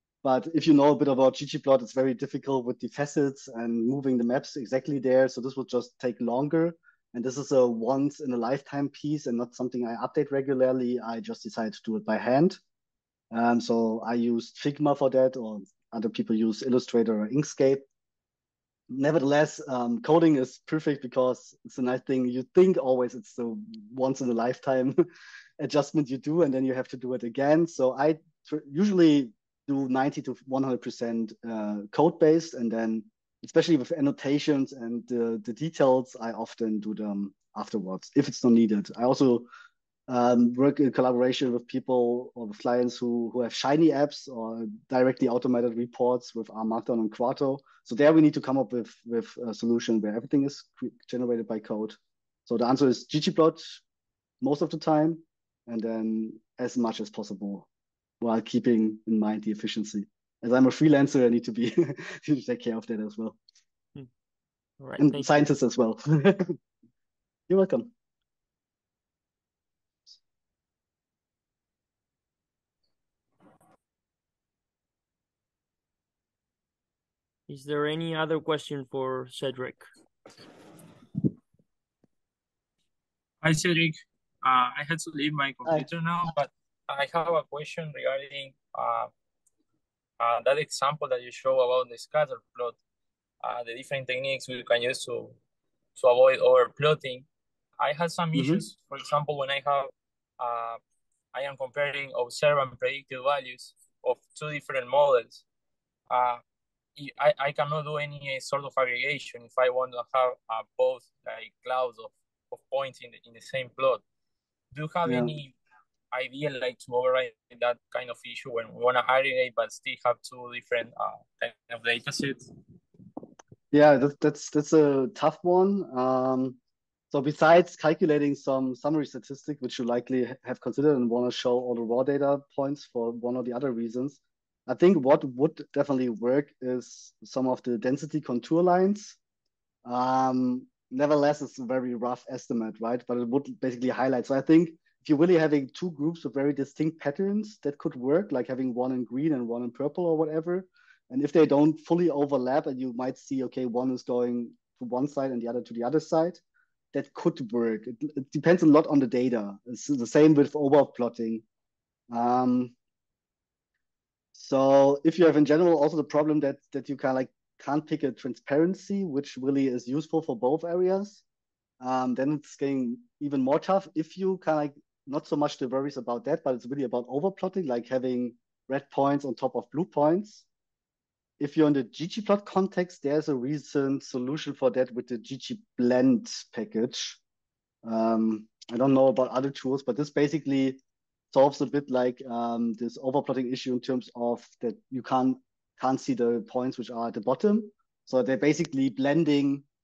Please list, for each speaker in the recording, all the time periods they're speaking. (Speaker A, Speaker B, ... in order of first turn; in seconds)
Speaker A: 0.2-12.6, 13.3-17.9, 18.9-25.0, 25.6-39.5, 40.1-53.8, 54.4-57.7, 58.2-63.4, 65.0-66.6, 67.5-67.9, 98.3-98.6, 115.1-115.3, 123.7-126.6, 127.1-139.2, 139.8-156.4, 156.9-161.4, 162.1-162.7, 164.3-171.2, 171.8-180.4, 181.4-187.2, 187.8-190.8, 191.3-199.6
Speaker B: 64.8-65.3, 77.5-79.9
Speaker C: 83.4-89.1, 90.2-92.8, 93.4-95.4, 96.0-97.3, 97.8-100.8, 101.3-105.4, 106.1-106.4, 107.0-114.0, 114.7-115.5, 116.1-122.5